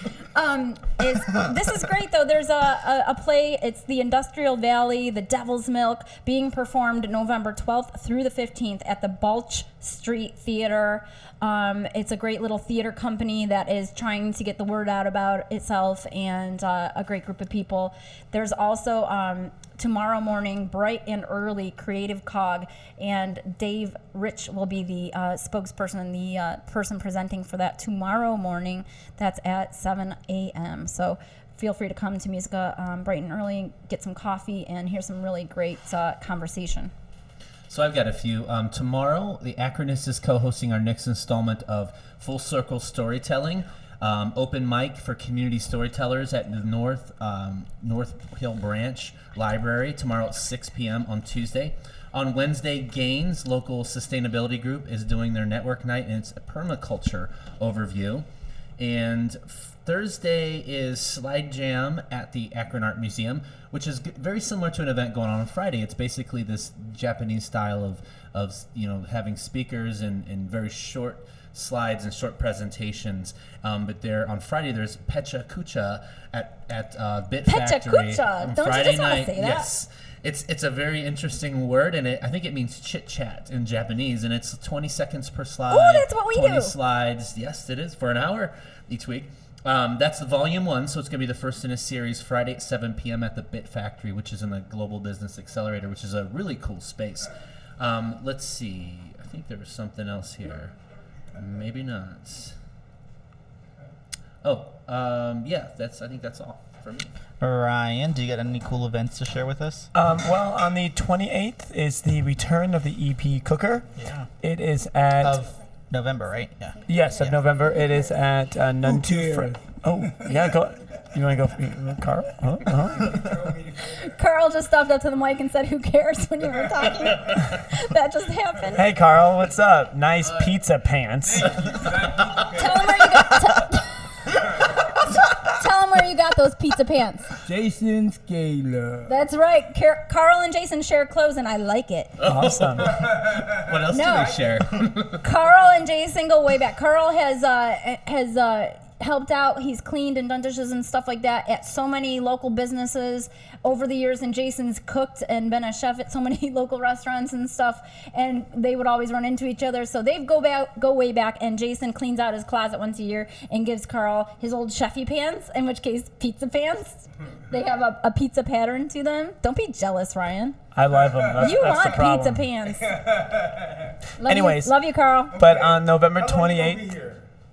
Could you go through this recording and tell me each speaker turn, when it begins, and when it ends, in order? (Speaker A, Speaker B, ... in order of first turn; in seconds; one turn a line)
Speaker A: 0.3-36.9
Speaker B: 37.7-58.2
Speaker B: 58.8-100.7
Speaker A: 77.5-79.7
Speaker A: 85.7-86.7
Speaker B: 101.3-102.6
Speaker B: 104.4-107.1
Speaker C: 107.4-109.9
Speaker D: 109.9-113.9
Speaker C: 113.9-114.3
Speaker D: 114.4-115.4
Speaker C: 115.2-117.7
Speaker D: 116.9-123.2
Speaker E: 118.8-119.8
Speaker A: 123.8-128.8
Speaker D: 128.7-131.7
Speaker B: 130.2-130.6
Speaker B: 131.3-132.5
Speaker E: 131.7-132.8
Speaker A: 132.5-137.3
Speaker E: 137.4-139.1
Speaker A: 139.1-142.2
Speaker B: 142.2-145.2
Speaker D: 142.2-143.0
Speaker A: 143.9-144.4
Speaker A: 145.0-170.6
Speaker D: 170.7-172.5
Speaker A: 171.3-173.1
Speaker A: 174.2-175.4
Speaker D: 174.2-174.7
Speaker D: 175.3-176.9
Speaker E: 175.4-177.2